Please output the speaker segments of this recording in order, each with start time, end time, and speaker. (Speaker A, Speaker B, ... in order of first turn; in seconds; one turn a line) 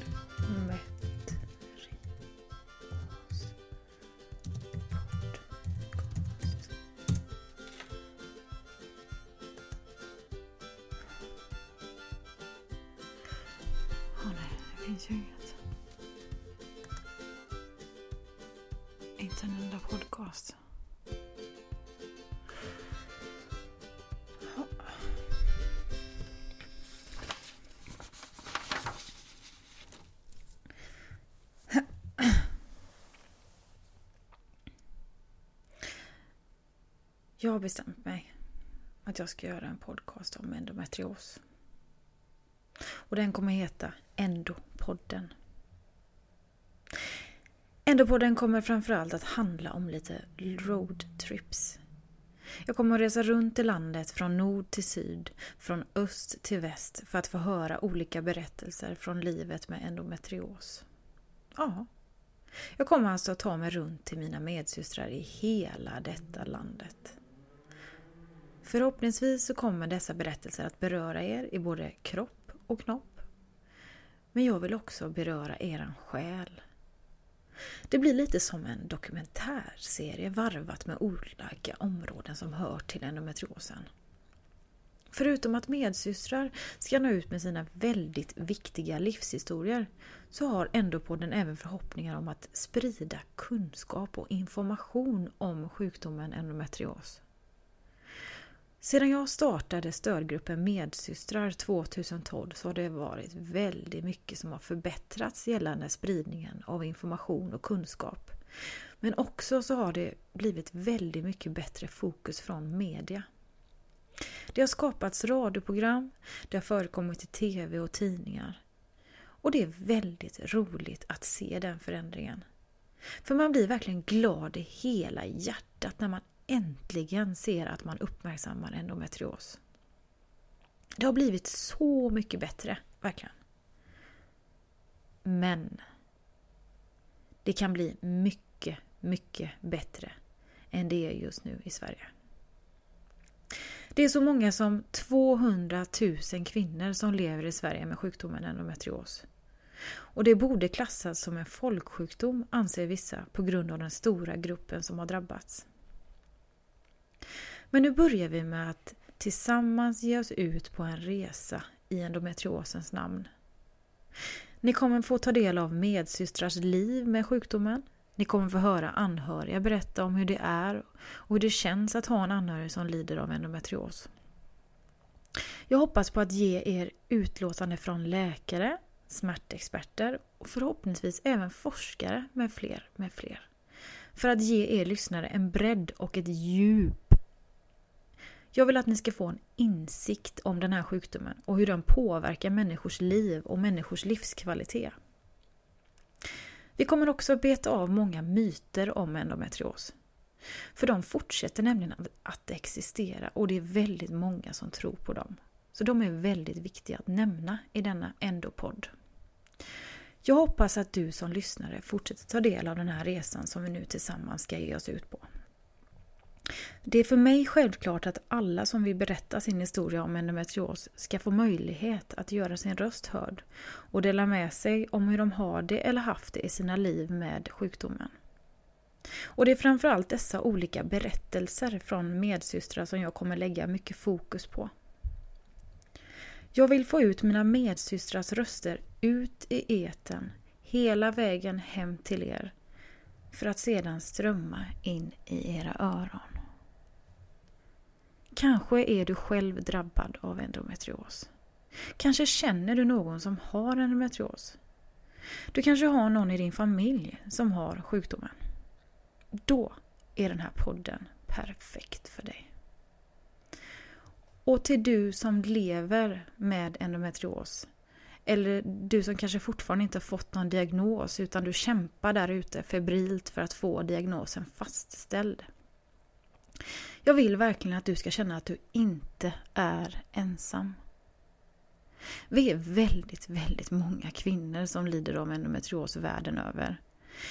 Speaker A: 0.4-1.4
Speaker A: 3.2-3.5
Speaker A: 14.1-15.6
Speaker A: 19.2-20.6
Speaker A: 37.4-38.3
Speaker A: 39.0-41.4
Speaker A: 43.1-45.3
Speaker A: 47.9-51.8
Speaker A: 52.6-60.9
Speaker A: 61.5-61.9
Speaker A: 62.8-67.2
Speaker A: 68.6-73.2
Speaker A: 74.3-76.6
Speaker A: 77.9-83.9
Speaker A: 85.1-97.2
Speaker A: 98.8-108.3
Speaker A: 109.0-113.2
Speaker A: 114.5-118.6
Speaker A: 119.4-122.4
Speaker A: 123.2-129.6
Speaker A: 131.0-133.3
Speaker A: 135.2-135.8
Speaker A: 137.4-140.1
Speaker A: 140.7-142.1
Speaker A: 143.9-149.2
Speaker A: 150.1-155.7
Speaker A: 157.7-163.3
Speaker A: 164.6-174.1
Speaker A: 175.7-183.5
Speaker A: 184.1-187.2
Speaker A: 188.5-194.9
Speaker A: 196.8-199.9
Speaker A: 200.7-208.9
Speaker A: 210.2-215.3
Speaker A: 216.8-228.1
Speaker A: 229.3-234.7
Speaker A: 236.5-242.5
Speaker A: 243.3-246.4
Speaker A: 248.3-251.3
Speaker A: 251.9-254.6
Speaker A: 255.5-258.3
Speaker A: 259.4-262.5
Speaker A: 264.4-267.7
Speaker A: 268.2-275.4
Speaker A: 277.0-280.8
Speaker A: 282.3-286.8